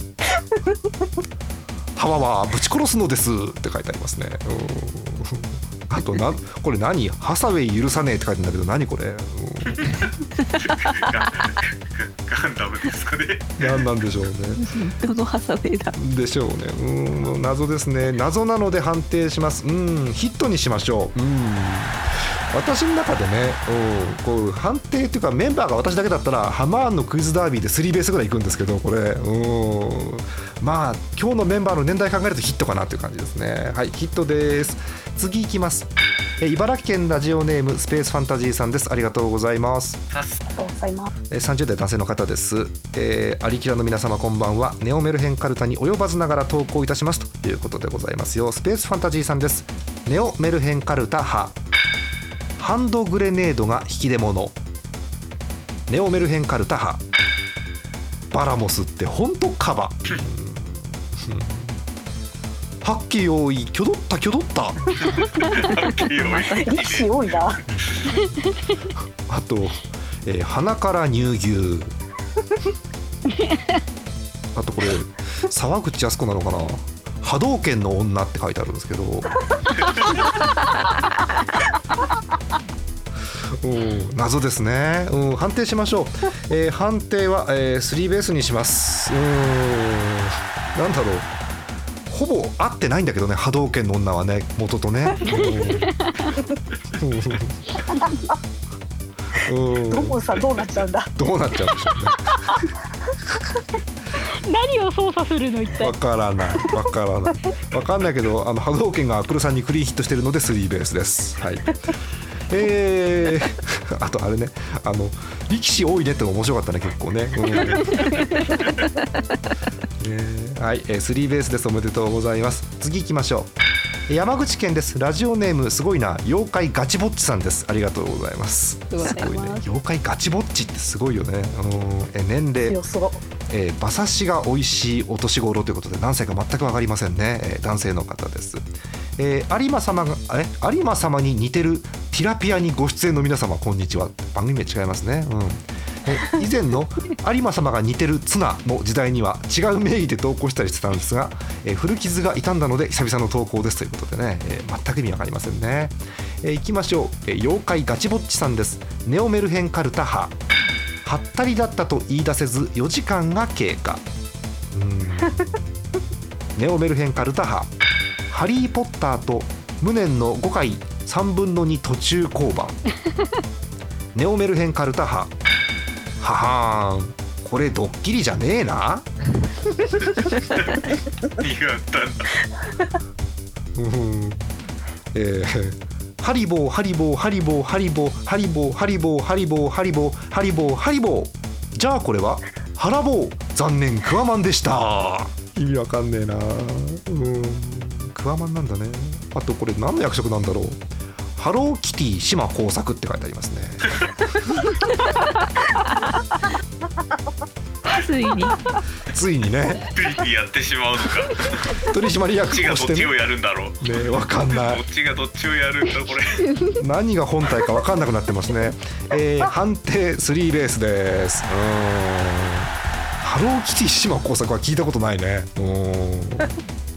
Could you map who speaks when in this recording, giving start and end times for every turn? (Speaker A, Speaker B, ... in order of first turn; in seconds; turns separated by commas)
Speaker A: 1.9-10.0, Speaker B: 9.6-13.9, Speaker C: 10.6-11.0, Speaker A: 13.6-14.6, Speaker C: 14.6-15.9, Speaker A: 15.9-35.9, Speaker A: 36.4-40.0, Speaker B: 40.1-40.5, Speaker D: 40.6-41.1, Speaker A: 41.3-51.5, Speaker A: 52.6-54.6, Speaker A: 55.9-57.0, Speaker A: 58.3-61.8, Speaker A: 62.8-64.8, Speaker B: 65.0-67.9, Speaker C: 65.5-66.7, Speaker D: 66.5-67.6, Speaker A: 67.7-68.3, Speaker A: 69.3-71.9, Speaker A: 74.5-79.4, Speaker B: 79.9-80.2, Speaker A: 83.6-91.3, Speaker A: 92.1-95.9, Speaker E: 95.3-96.4, Speaker A: 97.0-97.8, Speaker A: 99.3-100.2, Speaker D: 99.9-101.1, Speaker A: 101.2-102.6, Speaker E: 104.5-105.9, Speaker A: 105.7-111.7, Speaker A: 112.5-118.2, Speaker A: 120.0-123.5, Speaker A: 124.1-132.8, Speaker E: 128.9-129.6, Speaker D: 132.7-133.2, Speaker A: 133.5-138.6, Speaker A: 139.2-160.3, Speaker A: 161.0-164.0, Speaker A: 164.7-165.8, Speaker A: 166.6-167.7, Speaker A: 168.3-172.8, Speaker A: 174.1-175.3, Speaker A: 176.2-179.1, Speaker B: 180.5-182.3, Speaker A: 183.7-184.5, Speaker A: 185.1-200.8, Speaker A: 201.3-204.1, Speaker C: 207.8-208.6, Speaker A: 209.1-209.9, Speaker B: 209.8-211.8, Speaker A: 211.8-213.1, Speaker B: 212.5-216.4, Speaker A: 213.8-214.8, Speaker A: 216.8-226.6